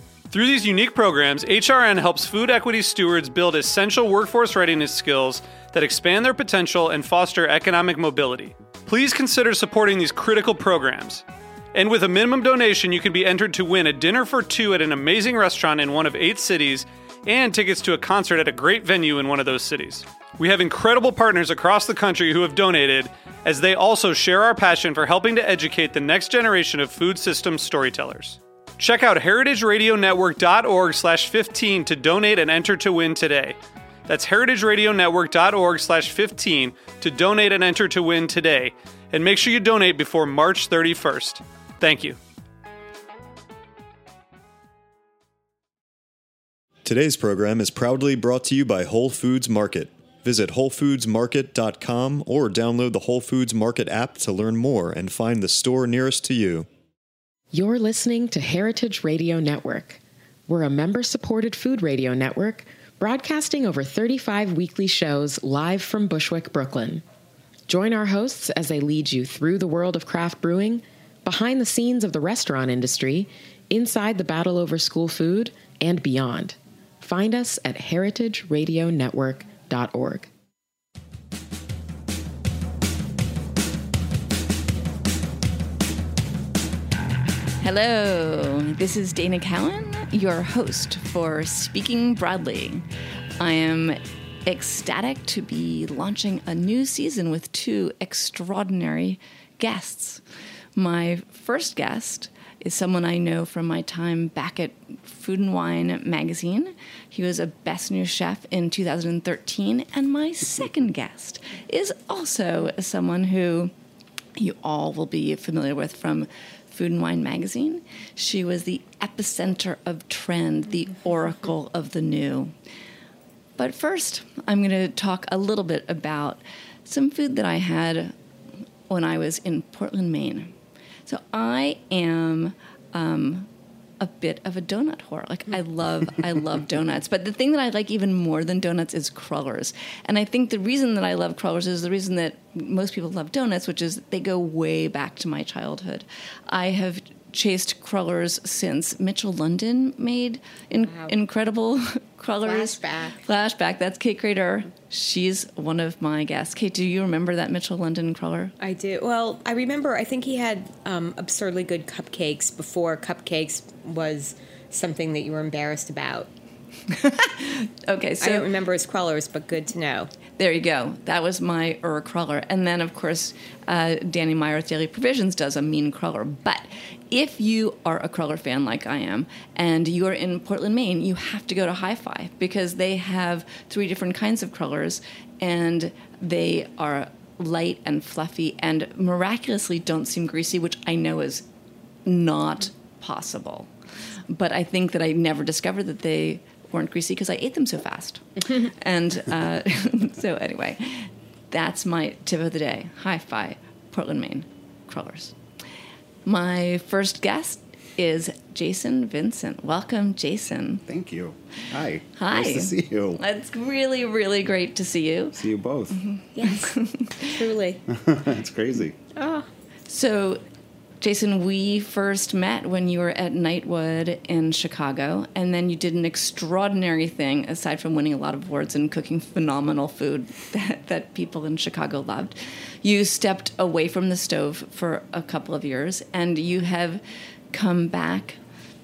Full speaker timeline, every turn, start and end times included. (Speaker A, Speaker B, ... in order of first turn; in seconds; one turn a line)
Speaker A: 0.3-42.2
Speaker B: 46.8-56.7
Speaker C: 57.5-67.0
Speaker C: 67.7-80.3
Speaker D: 87.6-92.9
Speaker D: 93.4-100.2
Speaker D: 100.8-113.7
Speaker D: 114.3-122.5
Speaker D: 123.6-128.1
Speaker D: 128.9-130.5
Speaker D: 131.1-133.5
Speaker D: 134.0-158.5
Speaker E: 152.4-153.2
Speaker E: 158.6-166.3
Speaker D: 166.9-168.5
Speaker E: 168.2-170.1
Speaker D: 170.4-191.5
Speaker D: 192.1-193.7
Speaker D: 194.3-205.3
Speaker D: 206.2-210.8
Speaker F: 210.9-213.2
Speaker D: 212.2-215.4
Speaker F: 215.4-216.0
Speaker D: 215.9-217.3
Speaker E: 216.4-217.8
Speaker F: 217.9-219.0
Speaker E: 219.2-219.5
Speaker D: 219.9-220.4
Speaker D: 221.0-238.4